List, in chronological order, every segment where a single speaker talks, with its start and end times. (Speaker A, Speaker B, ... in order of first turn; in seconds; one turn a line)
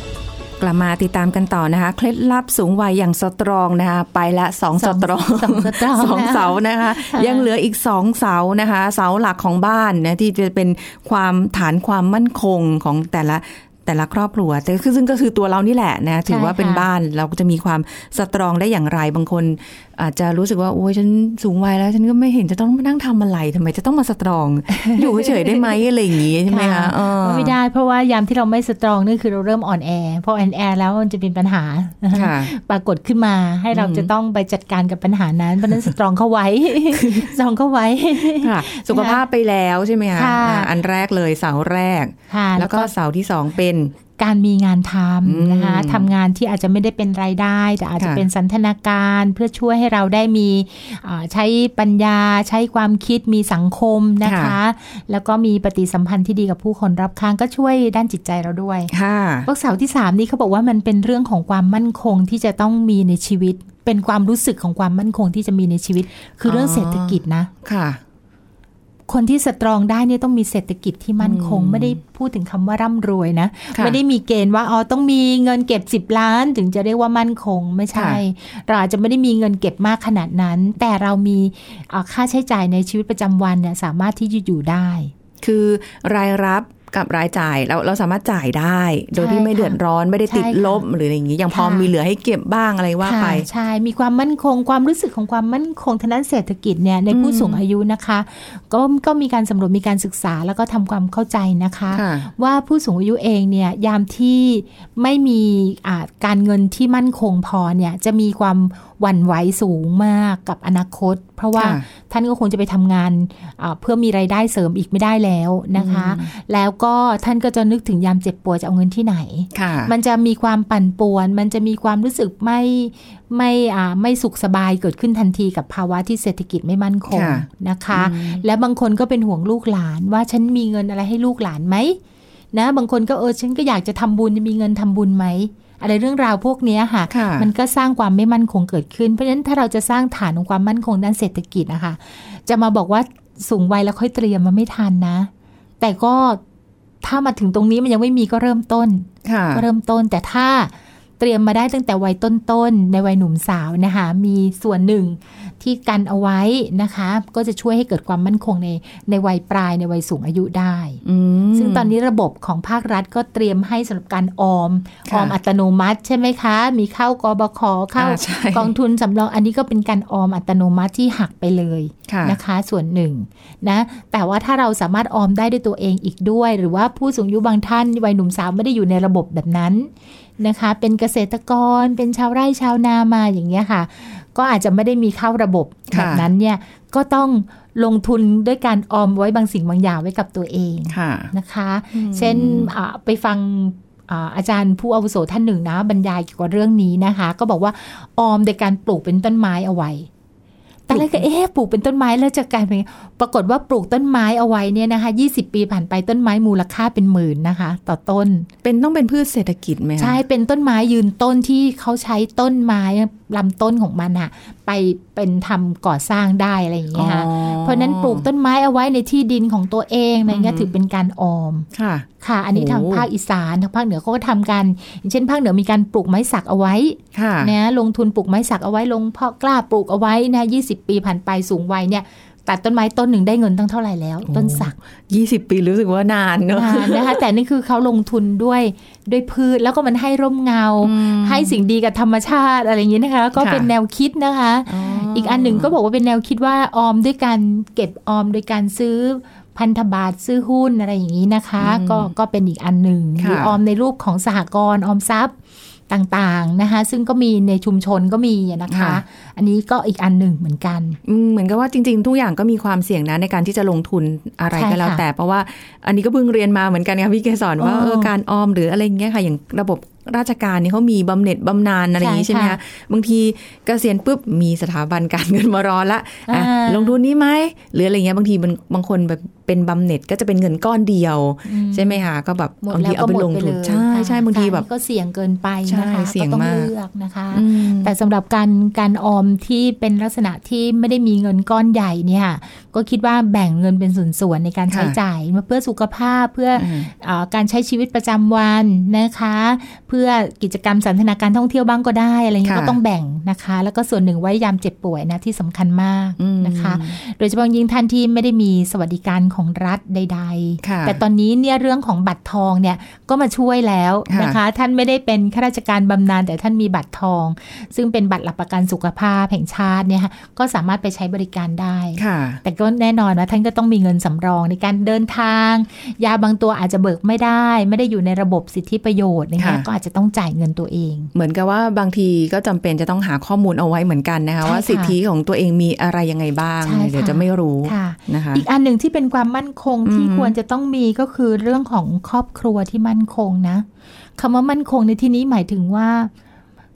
Speaker A: 0.6-27.5
Speaker B: 4.8-7.5
Speaker B: 16.3-16.8
Speaker B: 24.7-25.8
Speaker B: 26.4-39.2
Speaker A: 32.1-32.5
Speaker A: 33.7-34.1
Speaker A: 36.9-37.3
Speaker A: 38.4-43.9
Speaker B: 40.1-40.7
Speaker B: 42.3-42.9
Speaker B: 44.2-58.9
Speaker A: 45.2-46.1
Speaker A: 48.0-48.2
Speaker A: 54.2-54.5
Speaker A: 58.9-59.5
Speaker B: 59.5-67.5
Speaker A: 66.5-68.0
Speaker B: 69.1-85.1
Speaker A: 71.2-72.0
Speaker A: 77.9-78.2
Speaker A: 85.4-93.5
Speaker B: 89.2-90.8
Speaker B: 91.5-91.9
Speaker B: 93.0-132.0
Speaker A: 97.1-97.6
Speaker A: 101.9-102.3
Speaker A: 111.5-111.8
Speaker A: 115.7-116.3
Speaker A: 119.5-119.9
Speaker A: 127.1-128.4
Speaker B: 132.5-145.3
Speaker A: 137.1-137.5
Speaker B: 145.8-146.4
Speaker B: 147.0-161.0
Speaker A: 149.2-149.6
Speaker A: 161.0-161.9
Speaker B: 161.5-200.1
Speaker A: 165.1-165.3
Speaker A: 168.0-168.7
Speaker A: 172.1-172.4
Speaker A: 185.9-186.2
Speaker A: 190.9-191.3
Speaker A: 191.9-192.7
Speaker B: 200.9-208.5
Speaker A: 200.9-201.2
Speaker A: 208.6-210.2
Speaker B: 210.0-221.7
Speaker A: 216.9-218.2
Speaker A: 220.3-220.7
Speaker A: 221.7-223.1
Speaker B: 222.2-234.7
Speaker A: 227.1-227.5
Speaker A: 234.2-237.2
Speaker B: 236.5-255.3
Speaker A: 240.8-241.5
Speaker A: 243.4-243.7
Speaker A: 244.7-245.7
Speaker A: 251.6-252.1
Speaker A: 253.2-253.6
Speaker B: 255.9-261.0
Speaker A: 258.7-259.0
Speaker A: 261.0-284.6
Speaker B: 264.5-265.0
Speaker B: 267.6-268.1
Speaker B: 272.0-272.6
Speaker B: 276.3-276.9
Speaker B: 281.4-282.0
Speaker B: 282.6-331.1
Speaker A: 285.7-286.7
Speaker A: 287.3-287.9
Speaker A: 294.7-295.0
Speaker A: 296.6-296.9
Speaker A: 302.4-302.8
Speaker A: 306.2-307.0
Speaker A: 310.6-311.0
Speaker A: 314.1-314.4
Speaker A: 322.0-322.4
Speaker A: 329.4-329.6
Speaker A: 331.1-338.4
Speaker B: 334.4-334.9
Speaker B: 336.6-343.6
Speaker A: 339.8-340.3
Speaker B: 344.2-346.1